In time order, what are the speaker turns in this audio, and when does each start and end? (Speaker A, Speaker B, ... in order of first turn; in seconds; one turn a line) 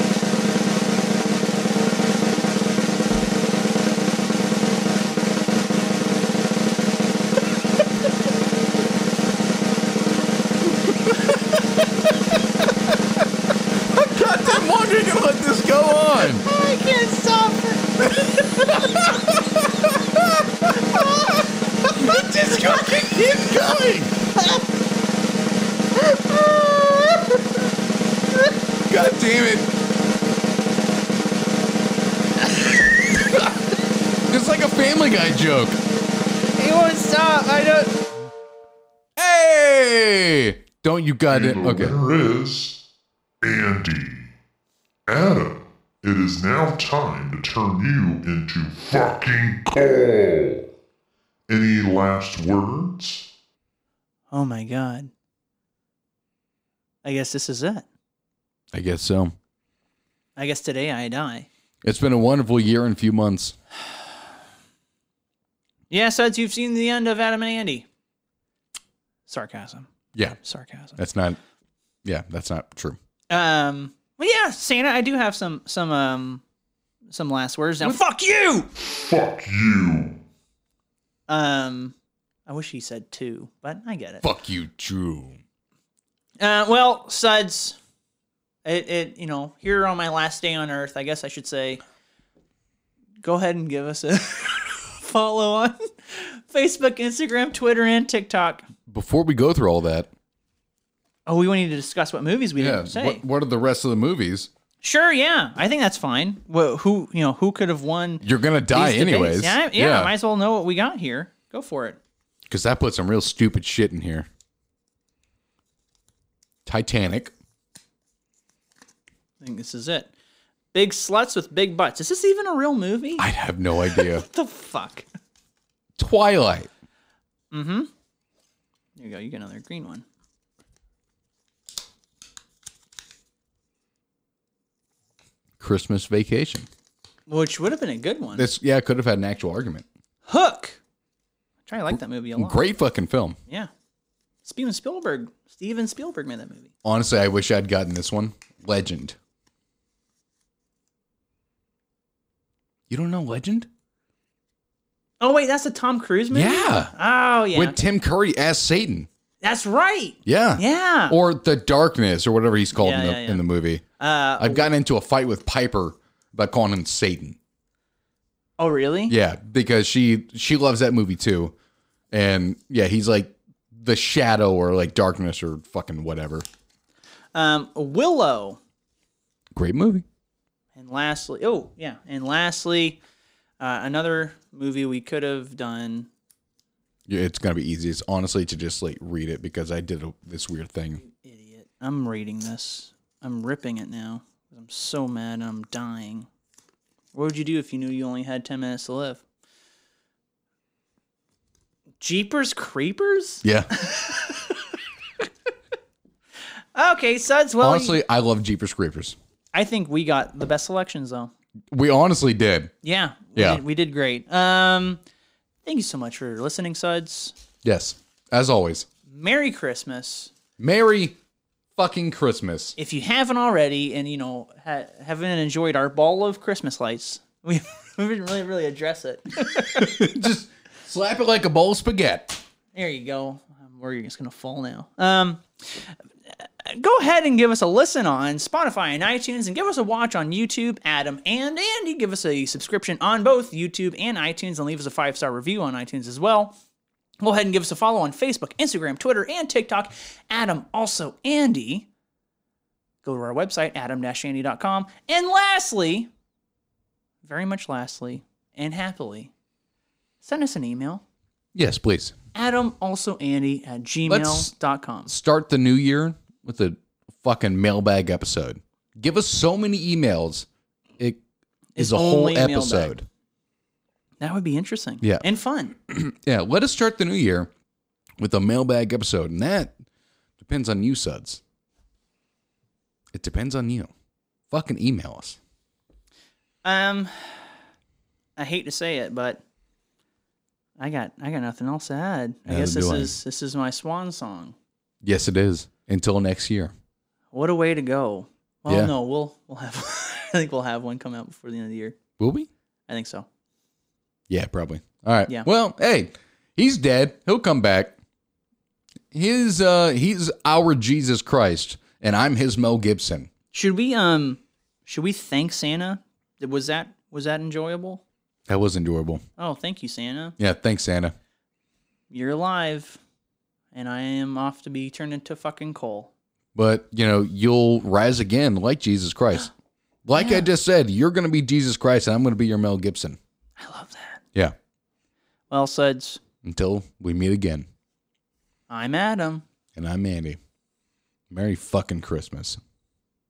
Speaker A: 13.8-16.4
Speaker B: 16.2-19.1
Speaker B: 20.9-22.9
Speaker A: 21.9-24.1
Speaker B: 24.4-24.6
Speaker B: 25.9-27.4
Speaker A: 28.9-29.7
Speaker A: 34.3-35.8
Speaker B: 36.5-38.0
Speaker A: 39.1-42.0
Speaker C: 41.3-42.7
Speaker C: 43.4-44.3
Speaker C: 45.1-50.7
Speaker C: 51.5-53.2
Speaker B: 54.3-55.1
Speaker B: 57.0-57.8
Speaker A: 58.7-59.4
Speaker B: 60.4-61.5
Speaker A: 61.8-63.5
Speaker B: 65.9-67.9
Speaker B: 69.3-71.0
Speaker A: 71.0-71.4
Speaker A: 72.0-73.0
Speaker B: 73.3-76.4
Speaker B: 77.1-78.7
Speaker C: 78.7-80.2
Speaker B: 81.3-81.9
Speaker B: 82.5-84.2
Speaker A: 84.2-85.4
Speaker B: 86.4-87.8
Speaker B: 88.6-91.8
Speaker B: 93.2-98.7
Speaker A: 98.9-100.1
Speaker B: 101.2-103.2
Speaker A: 102.6-104.5
Speaker B: 104.8-112.0
Speaker A: 108.2-110.1
Speaker A: 112.5-114.3
Speaker A: 116.7-117.3
Speaker B: 119.4-120.1
Speaker B: 120.7-123.3
Speaker A: 123.2-124.2
Speaker B: 123.8-125.1
Speaker A: 126.0-126.7
Speaker B: 127.5-127.9
Speaker B: 128.9-130.0
Speaker A: 135.6-136.7
Speaker B: 137.3-138.5
Speaker A: 138.3-139.8
Speaker B: 140.2-140.8
Speaker B: 141.7-142.7
Speaker A: 141.9-143.4
Speaker B: 144.4-146.7
Speaker A: 146.8-149.2
Speaker A: 152.9-153.7
Speaker B: 155.2-157.8
Speaker A: 156.3-156.9
Speaker A: 157.5-159.1
Speaker B: 159.4-161.2
Speaker A: 160.2-163.8
Speaker B: 162.7-163.4
Speaker B: 164.0-164.7
Speaker A: 164.4-167.4
Speaker B: 168.6-169.1
Speaker A: 169.1-171.5
Speaker A: 172.1-176.4
Speaker B: 177.3-178.6
Speaker A: 179.5-180.0
Speaker B: 180.7-183.0
Speaker B: 183.6-186.1
Speaker A: 187.1-191.0
Speaker B: 191.0-196.3
Speaker B: 197.1-199.2
Speaker B: 202.0-204.6
Speaker A: 203.4-203.7
Speaker B: 206.7-208.0
Speaker A: 207.6-209.2
Speaker B: 209.5-211.3
Speaker A: 211.7-212.7
Speaker B: 212.8-215.0
Speaker A: 213.3-213.6
Speaker B: 215.6-217.3
Speaker A: 217.6-218.9
Speaker B: 219.1-220.3
Speaker A: 220.6-221.2
Speaker A: 221.8-222.7
Speaker B: 222.8-230.0
Speaker A: 229.6-232.4
Speaker B: 232.7-235.9
Speaker B: 236.6-246.6
Speaker B: 247.2-251.9
Speaker B: 253.0-256.1
Speaker B: 257.2-259.3
Speaker B: 260.2-261.0
Speaker A: 261.5-262.1
Speaker B: 262.3-265.1
Speaker A: 264.1-264.5
Speaker A: 265.1-270.5
Speaker B: 271.8-272.9
Speaker A: 271.8-273.0
Speaker B: 274.2-275.7
Speaker A: 275.8-277.5
Speaker A: 278.2-279.7
Speaker A: 280.4-281.4
Speaker A: 283.1-283.9
Speaker A: 284.5-285.4
Speaker B: 286.6-287.5
Speaker B: 288.4-289.4
Speaker B: 290.8-294.5
Speaker A: 292.5-293.2
Speaker A: 295.0-296.7
Speaker B: 297.3-301.9
Speaker A: 298.7-298.9
Speaker A: 302.2-302.5
Speaker B: 302.9-303.3
Speaker A: 304.3-307.9
Speaker A: 309.1-313.3
Speaker B: 313.5-318.0
Speaker A: 318.5-319.2
Speaker B: 319.4-320.4
Speaker A: 320.4-321.1
Speaker B: 322.1-323.0
Speaker B: 323.7-326.1
Speaker A: 326.5-329.5
Speaker A: 330.0-333.2
Speaker B: 330.1-330.5
Speaker B: 333.6-334.2
Speaker B: 335.5-336.2
Speaker A: 336.4-337.7
Speaker B: 338.7-339.4
Speaker A: 339.7-340.4
Speaker A: 341.3-342.6